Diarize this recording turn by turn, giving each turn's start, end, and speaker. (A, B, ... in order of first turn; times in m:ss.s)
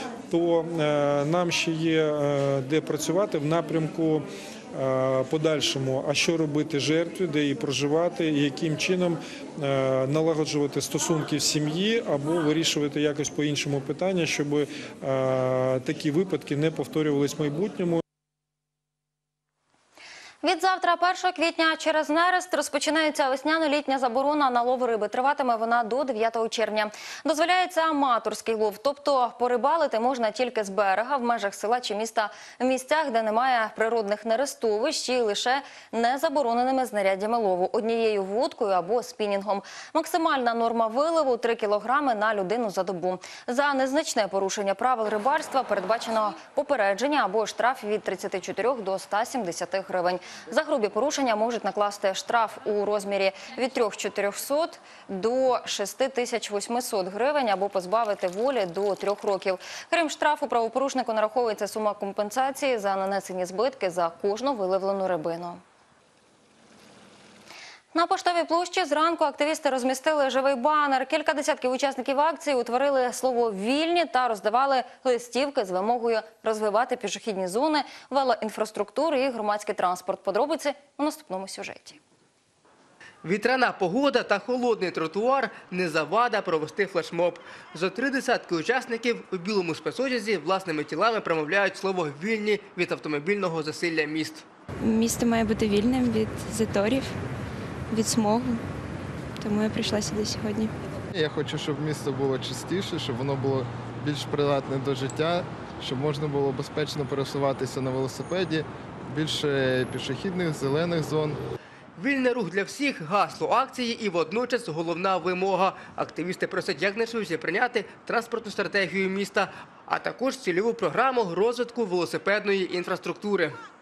0:00.3-0:18.0 A
0:20.4-1:05.6 B
1:07.9-1:22.0 B
1:23.2-1:34.4 C
1:34.8-1:37.1 D
1:37.9-1:38.6 D
1:39.4-1:40.7 D
1:41.1-1:51.4 E
1:52.0-2:03.6 C